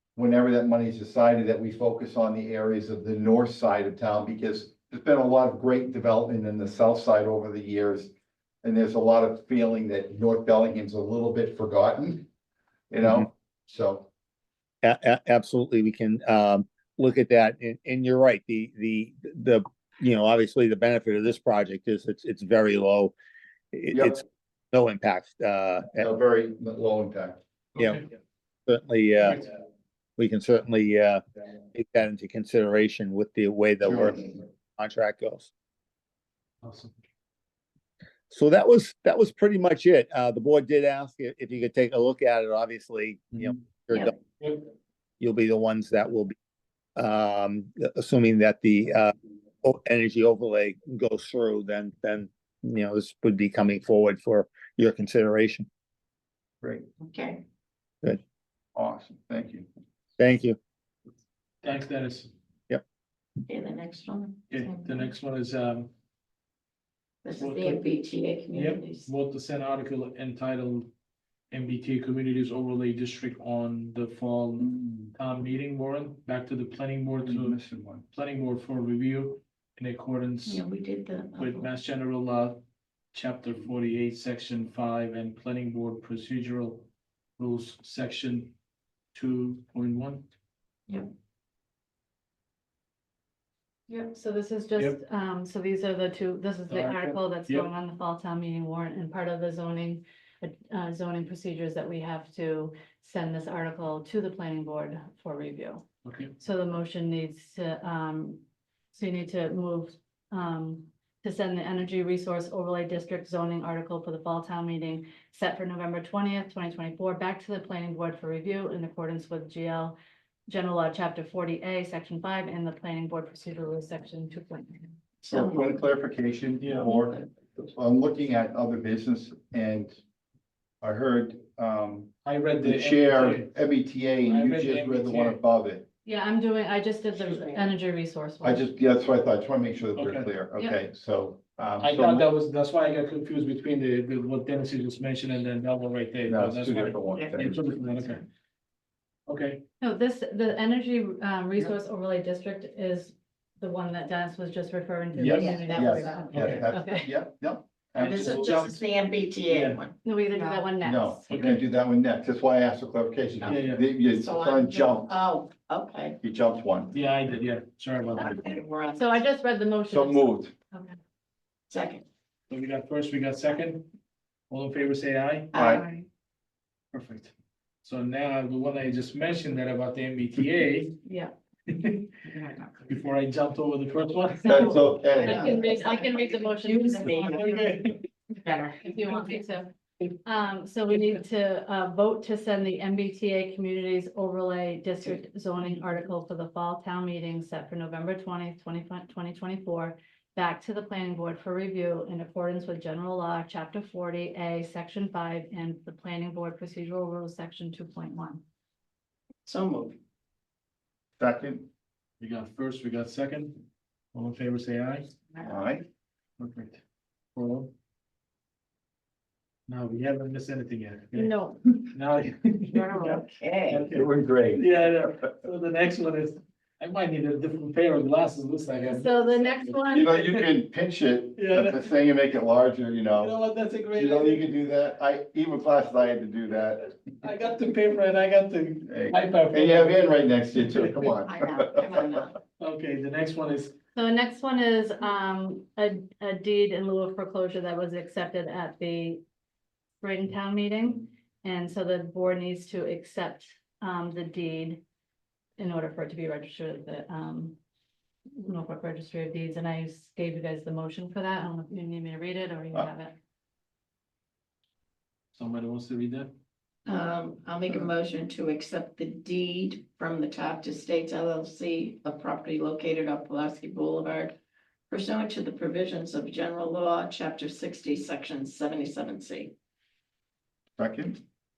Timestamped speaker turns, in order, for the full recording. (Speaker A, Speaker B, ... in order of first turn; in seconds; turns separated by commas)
Speaker A: 0.1-8.1, Speaker A: 8.6-12.3, Speaker A: 12.9-14.1, Speaker B: 14.8-23.1, Speaker B: 23.7-26.1, Speaker A: 23.9-24.2, Speaker A: 25.9-27.4, Speaker C: 27.8-28.0, Speaker B: 27.8-28.0, Speaker B: 28.7-29.5, Speaker B: 30.2-31.2, Speaker B: 31.7-35.5, Speaker A: 33.8-34.3, Speaker C: 36.6-36.9, Speaker B: 38.3-44.1, Speaker B: 45.2-46.4, Speaker B: 47.0-55.7, Speaker D: 57.0-57.4, Speaker A: 58.7-59.7, Speaker B: 60.2-60.6, Speaker C: 61.6-62.3, Speaker D: 63.5-65.1, Speaker C: 64.5-65.9, Speaker D: 67.2-69.1, Speaker C: 67.4-67.8, Speaker C: 68.5-70.9, Speaker C: 71.5-77.6, Speaker A: 74.6-75.1, Speaker A: 77.2-78.0, Speaker C: 78.1-80.6, Speaker D: 80.5-81.7, Speaker C: 81.4-82.6, Speaker C: 83.1-88.5, Speaker C: 89.1-90.2, Speaker E: 93.9-105.8, Speaker C: 96.7-97.7, Speaker C: 106.0-106.3, Speaker E: 106.4-108.4, Speaker E: 108.9-124.9, Speaker D: 125.2-125.8, Speaker A: 125.3-130.0, Speaker C: 126.6-126.9, Speaker D: 126.8-127.3, Speaker A: 130.8-135.8, Speaker C: 132.2-133.5, Speaker C: 134.2-135.4, Speaker E: 136.0-138.7, Speaker D: 137.2-137.7, Speaker A: 138.4-142.3, Speaker C: 139.9-140.4, Speaker C: 141.8-148.2, Speaker A: 146.3-147.6, Speaker D: 147.1-147.5, Speaker C: 149.3-149.6, Speaker E: 149.8-157.1, Speaker A: 155.1-158.5, Speaker C: 155.2-155.5, Speaker D: 155.3-156.4, Speaker C: 156.3-156.7, Speaker C: 158.0-158.8, Speaker D: 158.0-160.7, Speaker C: 159.5-159.8, Speaker E: 160.0-161.3, Speaker A: 160.8-165.1, Speaker C: 161.3-161.6, Speaker C: 163.4-163.9, Speaker D: 164.1-166.2, Speaker A: 166.2-166.9, Speaker C: 166.9-168.4, Speaker D: 168.2-169.2, Speaker E: 168.9-171.0, Speaker A: 169.9-170.5, Speaker D: 171.7-172.0, Speaker C: 172.5-173.9, Speaker C: 174.5-175.6, Speaker D: 175.5-175.8, Speaker A: 175.5-175.8, Speaker E: 175.7-176.1, Speaker C: 176.9-177.3, Speaker C: 177.8-181.0, Speaker E: 181.0-181.3, Speaker C: 181.7-182.1, Speaker D: 182.3-182.8, Speaker C: 182.9-184.8, Speaker E: 184.4-187.8, Speaker A: 184.4-185.7, Speaker D: 185.2-187.5, Speaker C: 187.0-188.1, Speaker D: 188.4-189.3, Speaker E: 188.8-189.7, Speaker E: 190.2-208.4, Speaker D: 209.4-210.0, Speaker A: 211.2-211.7, Speaker C: 212.2-215.1, Speaker A: 215.4-215.8, Speaker C: 216.4-216.8, Speaker C: 217.3-217.7, Speaker C: 219.7-221.3, Speaker E: 221.1-221.8, Speaker C: 221.8-223.0, Speaker D: 222.7-223.8, Speaker C: 223.7-230.5, Speaker A: 223.9-225.3, Speaker E: 228.8-230.1, Speaker A: 229.9-233.3, Speaker C: 231.3-231.9, Speaker C: 233.1-234.4, Speaker A: 233.9-236.9, Speaker C: 237.2-241.0, Speaker A: 238.8-242.1, Speaker D: 241.2-242.4, Speaker C: 242.6-243.7, Speaker E: 243.9-249.2, Speaker E: 250.0-254.8, Speaker E: 255.6-257.6, Speaker E: 258.4-263.1, Speaker C: 265.3-266.3, Speaker D: 266.9-274.3, Speaker D: 274.9-279.5, Speaker A: 280.8-281.2